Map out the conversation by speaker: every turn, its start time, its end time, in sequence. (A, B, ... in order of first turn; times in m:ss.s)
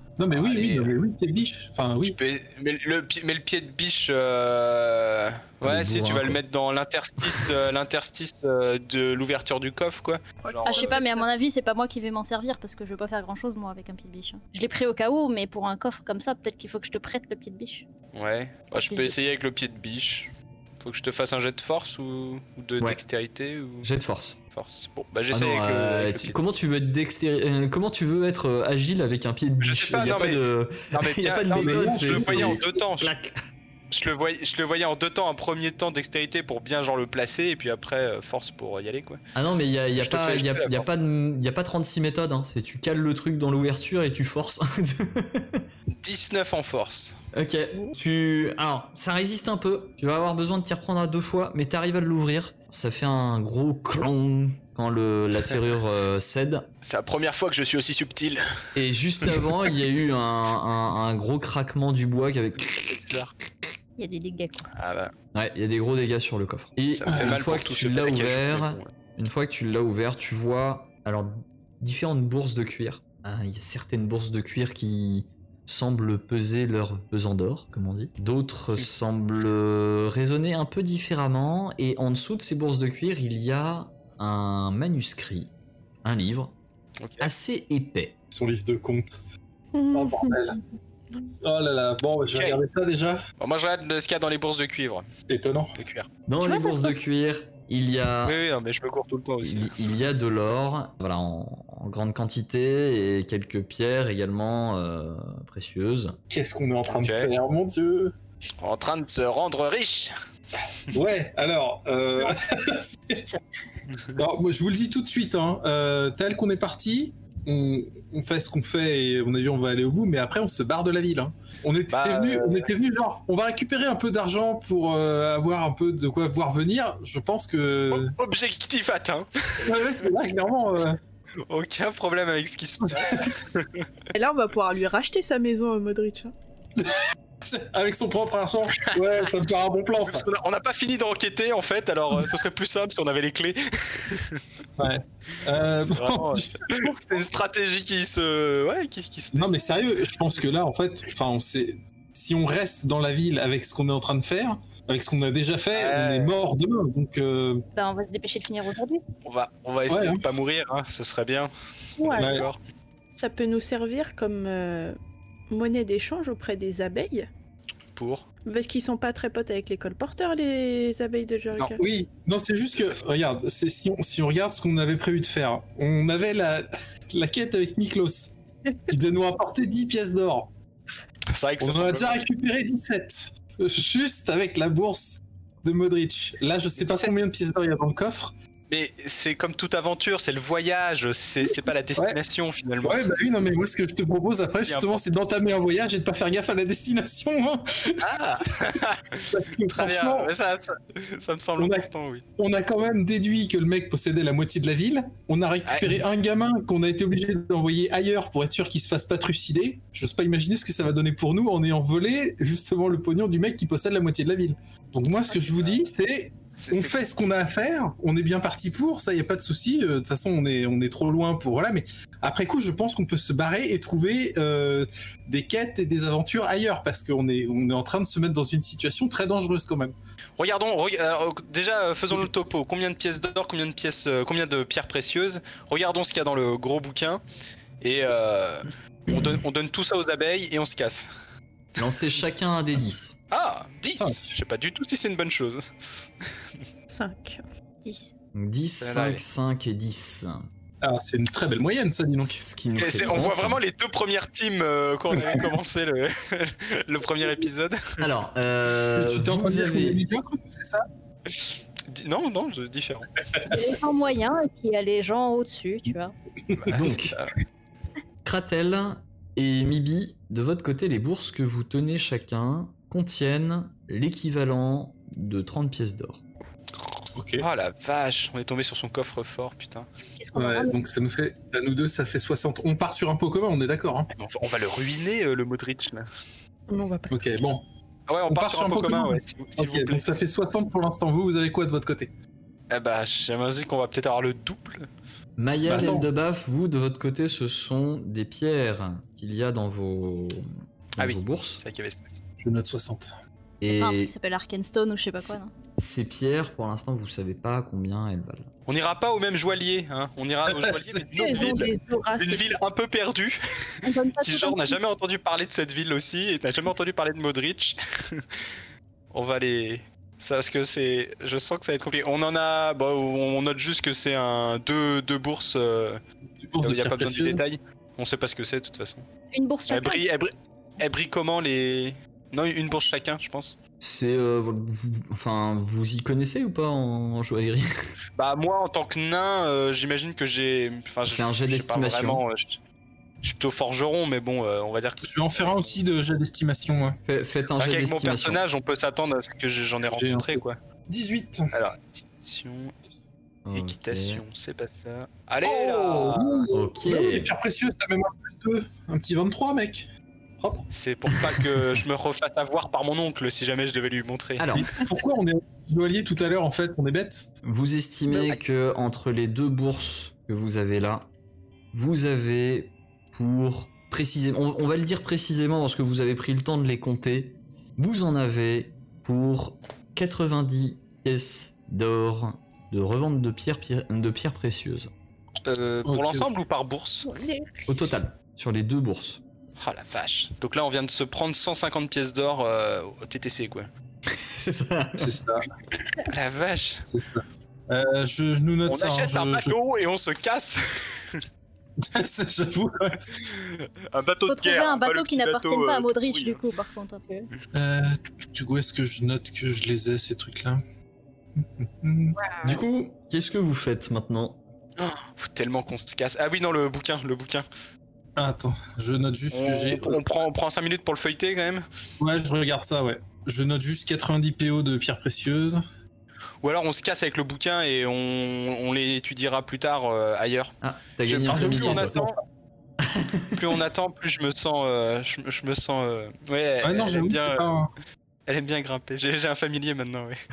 0:00.2-0:02.2 A
0:00.3-0:00.9 B
0:02.0-0:11.0 B
0:05.6-0:06.4 C
0:10.4-0:11.3 D
0:10.6-0:17.8 E
0:18.1-0:23.9 B
0:18.8-0:19.2 E
0:23.8-0:24.4 C
0:24.5-0:26.4 B
0:25.3-0:33.3 C
0:29.6-0:33.1 B
0:31.5-0:32.8 A
0:33.9-0:39.2 B
0:39.4-0:45.7 C
0:40.0-0:40.9 B
0:45.9-0:47.2 B
0:47.3-0:56.7 C
0:56.8-0:58.4 B
0:58.8-1:03.0 C
1:02.6-1:03.3 B
1:04.0-1:04.7 E
1:04.7-1:05.1 B
1:05.3-1:25.5 C
1:07.0-1:08.9 B
1:07.1-1:07.4 A
1:26.0-1:26.5 C
1:27.0-1:27.3 B
1:27.2-1:28.2 C
1:28.3-1:29.2 A
1:29.7-1:30.4 D
1:29.9-1:30.6 A
1:31.4-1:33.2 A
1:32.3-1:32.6 B
1:33.4-1:35.0 B
1:35.3-1:35.7 A
1:35.8-1:36.1 B
1:36.3-1:38.4 C
1:36.4-1:37.0 E
1:38.2-1:39.7 B
1:39.4-1:46.2 C
1:46.3-1:48.1 A
1:46.9-1:47.3 B
1:48.6-1:50.1 B
1:50.9-1:53.3 A
1:53.9-1:54.2 B
1:54.2-2:08.1 A
2:01.9-2:02.7 B
2:07.9-2:09.7 B
2:09.6-2:11.0 A
2:11.5-2:13.9 B
2:12.9-2:13.4 A
2:14.1-2:16.3 D
2:16.8-2:20.3 A
2:20.0-2:24.4 B
2:24.8-2:27.0 A
2:25.9-2:29.8 B
2:29.4-2:37.6 A
2:35.7-2:36.4 B
2:37.8-2:39.0 E
2:39.2-2:41.5 B
2:39.9-2:40.2 A
2:42.0-2:42.4 D
2:42.0-2:42.6 B
2:42.2-2:42.5 A
2:43.1-2:45.0 D
2:45.5-2:47.3 D
2:48.0-2:48.2 B
2:48.5-2:51.8 D
2:51.8-2:58.4 A
2:58.9-3:00.5 A
3:01.3-3:02.2 B
3:01.6-3:08.3 A
3:06.8-3:07.1 B
3:08.7-3:13.0 B
3:11.4-3:12.2 A
3:12.8-3:18.5 A
3:14.7-3:15.1 B
3:18.0-3:22.2 B
3:19.3-3:20.3 A
3:21.6-3:21.9 A
3:22.4-3:49.9 A
3:25.7-3:26.0 B
3:35.1-3:35.8 B
3:36.6-3:37.1 B
3:50.4-3:57.2 B
3:57.8-4:01.1 B
4:01.8-4:03.2 C
4:03.3-4:05.6 B
4:03.9-4:04.3 A
4:06.9-4:07.4 D
4:07.8-4:08.1 E
4:08.3-4:10.5 C
4:08.8-4:09.2 B
4:10.8-4:12.4 A
4:12.2-4:13.6 C
4:12.8-4:18.1 B
4:15.1-4:15.5 A
4:18.0-4:20.0 C
4:18.9-4:20.9 A
4:21.3-4:23.2 B
4:23.4-4:26.1 E
4:26.5-4:26.9 A
4:26.6-4:27.3 B
4:26.7-4:27.2 C
4:28.2-4:36.2 C
4:37.2-4:37.5 A
4:37.4-4:39.9 B
4:40.2-4:40.8 E
4:40.4-4:44.1 A
4:44.2-4:46.1 B
4:46.7-4:47.3 D
4:47.1-4:47.6 A
4:48.1-4:50.1 B
4:48.2-4:52.1 A
4:52.7-4:54.9 B
4:55.4-5:01.6 C
4:55.7-4:56.1 A
5:01.0-5:02.2 B
5:02.4-5:03.1 A
5:03.6-5:04.1 C
5:03.7-5:05.5 E
5:05.2-5:08.5 C
5:08.7-5:13.4 B
5:10.5-5:11.5 A
5:11.1-5:12.4 D
5:13.8-5:14.8 E
5:14.2-5:18.3 B
5:19.1-5:26.0 B
5:26.4-5:27.4 A
5:26.6-5:29.1 B
5:29.3-5:30.0 E
5:29.7-5:33.6 B
5:33.8-5:37.7 C
5:38.2-5:42.6 B
5:41.1-5:42.2 C
5:43.2-5:45.8 B
5:45.0-5:47.0 A
5:47.1-5:48.4 C
5:47.6-5:50.6 B
5:49.9-5:51.5 A
5:51.5-5:52.8 B
5:53.4-5:54.2 C
5:53.5-5:56.5 B
5:55.4-5:59.9 A
5:56.5-5:57.3 C
6:00.4-6:00.7 A
6:00.7-6:04.8 B
6:01.1-6:01.6 C
6:04.4-6:04.7 C
6:04.6-6:07.3 A
6:07.4-6:11.1 C
6:08.1-6:08.4 B
6:11.7-6:24.9 C
6:25.5-6:27.1 B
6:25.9-6:26.4 A
6:27.0-6:27.7 D
6:27.7-6:29.2 C
6:29.6-6:33.7 B
6:34.1-6:35.2 C
6:35.0-6:35.4 A
6:36.0-6:36.9 B
6:36.9-6:39.6 A
6:38.7-6:41.2 B
6:41.8-6:43.2 A
6:43.2-6:46.4 B
6:44.3-6:47.3 E
6:47.5-6:50.6 A
6:51.4-6:52.2 A
6:52.4-6:54.4 C
6:54.8-6:57.5 B
6:58.2-7:00.0 A
6:59.3-7:01.6 B
7:02.0-7:05.6 A
7:06.4-7:10.5 B
7:10.6-7:11.9 C
7:11.1-7:12.2 B
7:11.3-7:12.2 A
7:12.8-7:13.6 C
7:13.4-7:17.5 B
7:16.6-7:17.7 A
7:18.3-7:20.2 B